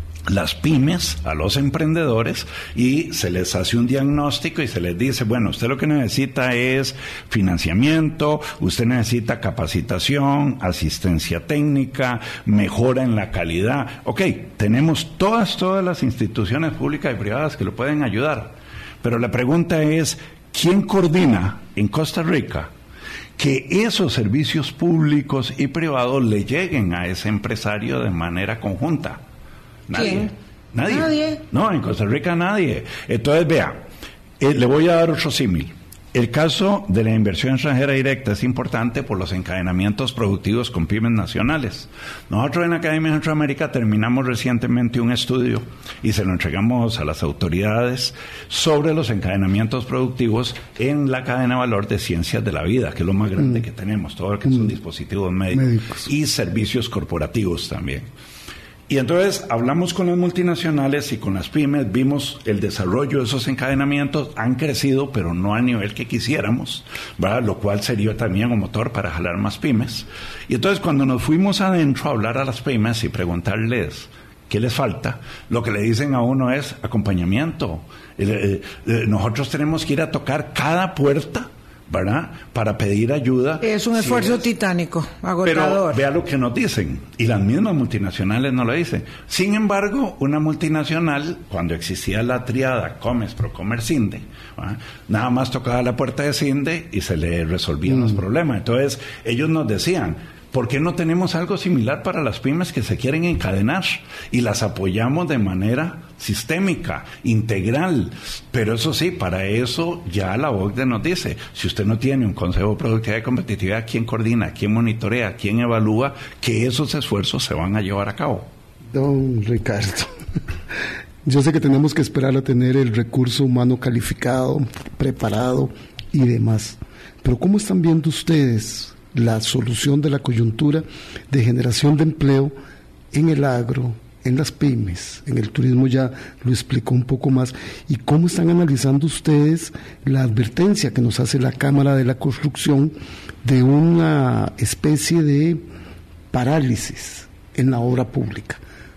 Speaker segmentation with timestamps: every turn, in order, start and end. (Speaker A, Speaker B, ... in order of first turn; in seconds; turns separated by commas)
Speaker A: 0.3-22.7, Speaker A: 23.4-29.2, Speaker A: 29.9-33.8, Speaker B: 29.9-30.3, Speaker B: 30.9-31.4, Speaker A: 34.4-58.1, Speaker C: 55.5-55.9, Speaker A: 58.9-84.5, Speaker B: 83.6-86.0, Speaker A: 85.4-118.5, Speaker C: 118.9-120.1, Speaker C: 121.2-132.5, Speaker C: 133.1-145.6, Speaker C: 146.3-148.6